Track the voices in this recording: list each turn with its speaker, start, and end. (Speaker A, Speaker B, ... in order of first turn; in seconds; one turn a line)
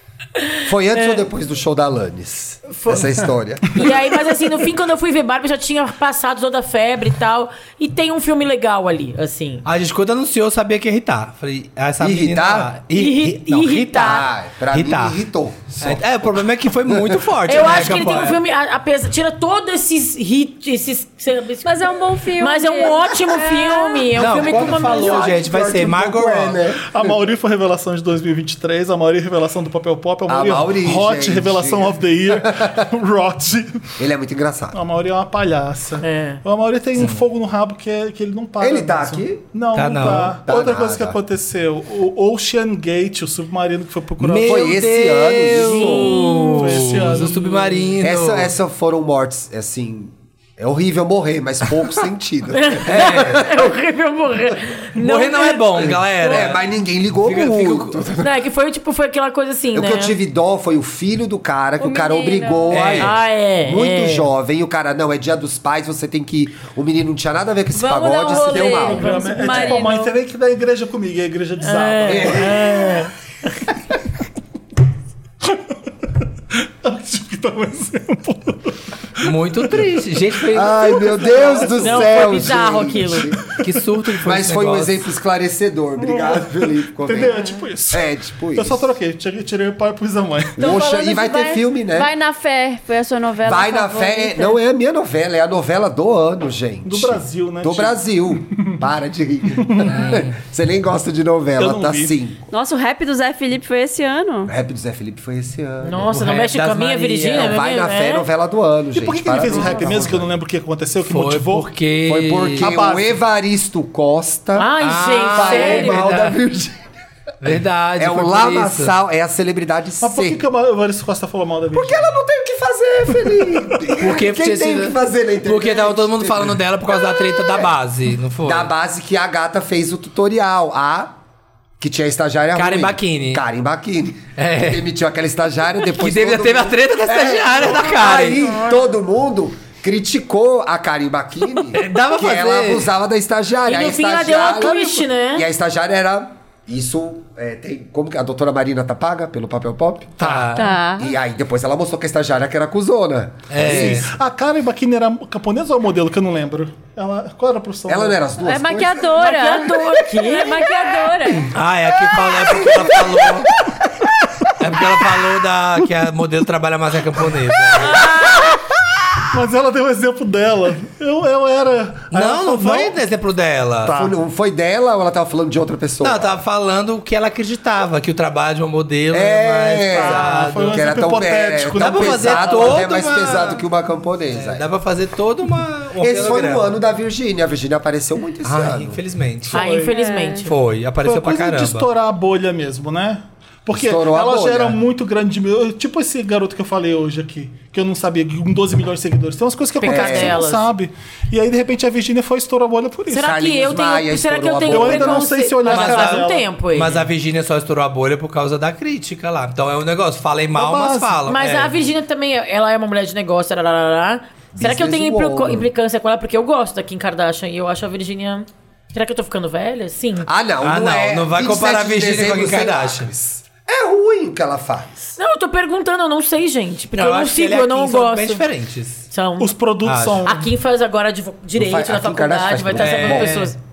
Speaker A: 0.4-1.2
Speaker B: 0.6-4.0
Speaker A: 2.7-9.7
Speaker C: 9.6-15.2
Speaker B: 12.0-12.7
Speaker A: 12.9-14.3
Speaker B: 13.9-16.1
Speaker C: 15.8-18.4
Speaker B: 16.9-17.2
Speaker A: 17.4-25.4
Speaker D: 21.6-24.1
Speaker C: 24.1-26.6
Speaker B: 24.3-27.1
Speaker E: 26.8-33.9
Speaker B: 30.3-32.9
Speaker B: 34.0-34.8
Speaker E: 34.7-44.7
Speaker A: 36.0-36.4
Speaker B: 38.6-39.4
Speaker C: 39.7-40.4
Speaker B: 40.4-41.2
Speaker C: 44.2-48.5
Speaker B: 44.4-46.2
Speaker E: 45.8-47.7
Speaker A: 46.0-46.8
Speaker B: 48.0-53.7
Speaker A: 52.5-56.5
Speaker C: 52.9-53.4
Speaker C: 55.0-56.7
Speaker B: 56.2-58.4
Speaker C: 57.2-58.1
Speaker A: 58.2-60.1
Speaker B: 59.7-69.8
Speaker D: 61.8-62.9
Speaker C: 62.7-63.1
Speaker A: 63.0-64.3
Speaker D: 67.7-70.2
Speaker E: 68.3-73.0
Speaker A: 68.7-69.7
Speaker A: 71.6-73.1
Speaker B: 72.1-72.7
Speaker E: 75.4-75.7
Speaker E: 76.5-79.8
Speaker C: 79.2-81.7
Speaker B: 80.5-83.5
Speaker E: 81.0-81.7
Speaker A: 81.7-83.3
Speaker C: 83.6-85.0
Speaker B: 84.2-88.9
Speaker E: 86.0-90.7
Speaker B: 90.6-92.1
Speaker D: 90.6-94.6
Speaker B: 93.4-102.5
Speaker E: 96.8-98.8
Speaker E: 99.6-100.0
Speaker C: 99.9-100.3
Speaker E: 101.6-102.1
Speaker D: 102.5-104.5
Speaker B: 104.5-106.2
Speaker A: 105.8-108.2
Speaker C: 106.1-107.6
Speaker B: 107.3-110.3
Speaker E: 108.9-111.7
Speaker C: 111.0-112.7
Speaker B: 112.0-116.8
Speaker E: 112.6-113.2
Speaker A: 114.5-116.1
Speaker C: 114.8-116.4
Speaker C: 117.4-118.9
Speaker B: 118.0-120.4
Speaker E: 120.0-122.1
Speaker B: 121.7-127.7
Speaker E: 123.2-123.6
Speaker C: 124.0-128.7
Speaker B: 128.4-131.2
Speaker B: 131.8-150.2
Speaker C: 132.6-133.4
Speaker C: 134.4-134.8
Speaker C: 135.8-138.5
Speaker C: 141.7-142.9
Speaker A: 143.7-145.4
Speaker E: 150.2-150.6
Speaker C: 150.2-150.7
Speaker D: 150.6-151.1
Speaker B: 151.0-154.1
Speaker C: 153.5-154.1
Speaker E: 153.6-158.3
Speaker B: 157.9-159.2
Speaker D: 158.4-161.5
Speaker A: 159.2-160.7
Speaker C: 161.5-163.5
Speaker B: 162.4-162.9
Speaker C: 164.6-168.2
Speaker D: 167.8-168.5
Speaker E: 169.3-173.0
Speaker C: 172.1-174.0
Speaker E: 173.8-174.1
Speaker B: 173.9-176.4
Speaker C: 176.0-180.9
Speaker B: 179.1-184.7
Speaker E: 179.9-182.8
Speaker C: 181.8-183.6
Speaker C: 184.3-186.7
Speaker B: 186.0-189.0
Speaker C: 188.4-189.7
Speaker E: 189.5-189.9
Speaker A: 189.5-190.5
Speaker D: 189.8-190.5
Speaker C: 190.4-191.9
Speaker E: 191.0-203.3
Speaker B: 193.7-194.8
Speaker A: 199.8-200.7
Speaker B: 199.8-200.4
Speaker A: 203.1-207.0
Speaker B: 203.2-205.3
Speaker E: 204.6-206.5
Speaker C: 205.6-211.8
Speaker E: 210.5-211.2
Speaker A: 211.3-220.3
Speaker B: 214.5-215.7
Speaker B: 220.2-225.1
Speaker C: 220.6-223.1
Speaker A: 225.2-228.4
Speaker C: 226.9-229.1
Speaker A: 229.1-229.6
Speaker E: 229.4-230.5
Speaker C: 229.8-230.2
Speaker A: 230.2-233.6
Speaker B: 231.5-233.4
Speaker C: 232.7-233.5